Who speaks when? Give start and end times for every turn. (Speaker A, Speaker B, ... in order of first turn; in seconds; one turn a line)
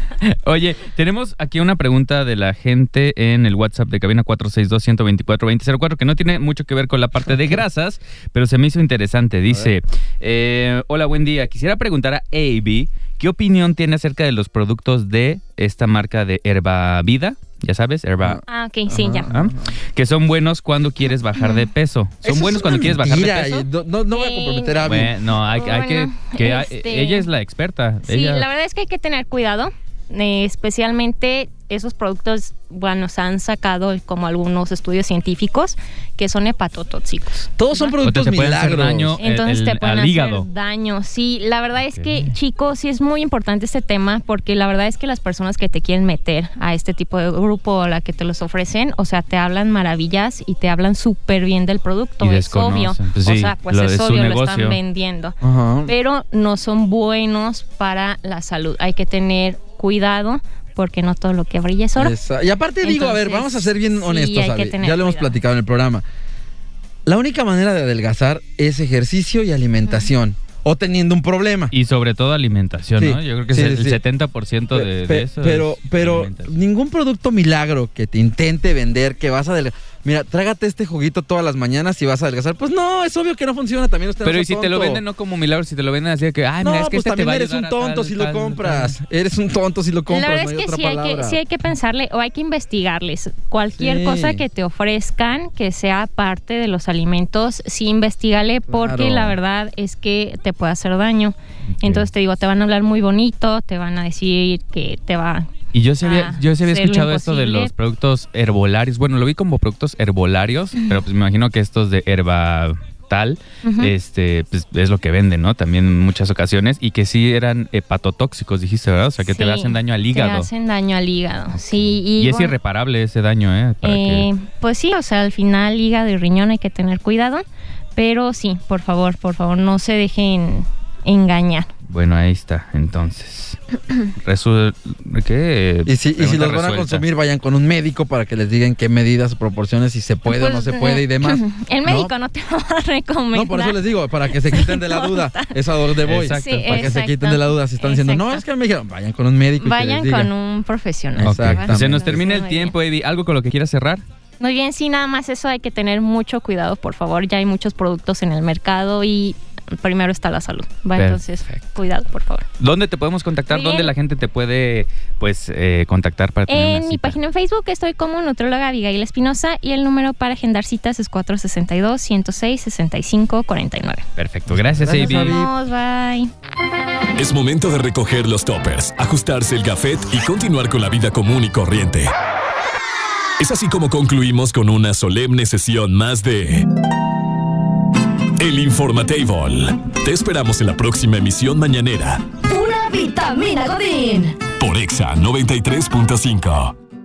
Speaker A: 0.2-18.4
Speaker B: 7.3-7.6
Speaker B: 9.5-9.7
Speaker B: 18.2-19.7
Speaker C: 18.4-19.3
Speaker A: 19.3-23.6
Speaker C: 21.4-21.7
Speaker B: 22.2-25.1
Speaker C: 24.1-27.3
Speaker A: 24.8-28.5
Speaker C: 28.0-38.0
Speaker B: 37.6-39.2
Speaker A: 38.0-40.5
Speaker C: 39.2-62.1
Speaker A: 41.8-42.3
Speaker A: 52.2-54.8
Speaker B: 55.4-55.9
Speaker B: 62.0-66.0
Speaker C: 62.8-65.4
Speaker B: 67.0-71.7
Speaker C: 69.8-70.1
Speaker A: 71.7-76.5
Speaker B: 73.0-74.0
Speaker B: 74.7-85.0
Speaker A: 84.2-89.0
Speaker B: 86.6-91.4
Speaker C: 90.1-105.5
Speaker B: 93.8-94.4
Speaker B: 98.7-99.4
Speaker A: 101.8-102.1
Speaker A: 105.7-120.5
Speaker C: 106.0-107.7
Speaker C: 113.6-113.9
Speaker C: 119.2-122.5
Speaker A: 121.5-124.3
Speaker C: 123.8-127.4
Speaker C: 128.0-131.7
Speaker A: 131.9-133.6
Speaker A: 134.2-137.1
Speaker B: 135.8-142.1
Speaker C: 140.3-145.6
Speaker B: 143.3-150.3
Speaker A: 146.0-147.0
Speaker C: 146.3-148.4
Speaker C: 149.6-152.7
Speaker B: 151.1-152.2
Speaker A: 151.2-154.0
Speaker C: 154.4-162.4
Speaker A: 160.9-161.6
Speaker A: 162.6-167.2
Speaker C: 163.5-163.9
Speaker C: 166.5-174.0
Speaker A: 174.2-175.4
Speaker B: 174.5-175.5
Speaker C: 175.2-176.3
Speaker D: 177.2-182.1
Speaker D: 183.4-186.7
Speaker D: 188.4-192.2
Speaker E: 192.4-194.4
Speaker D: 194.6-196.7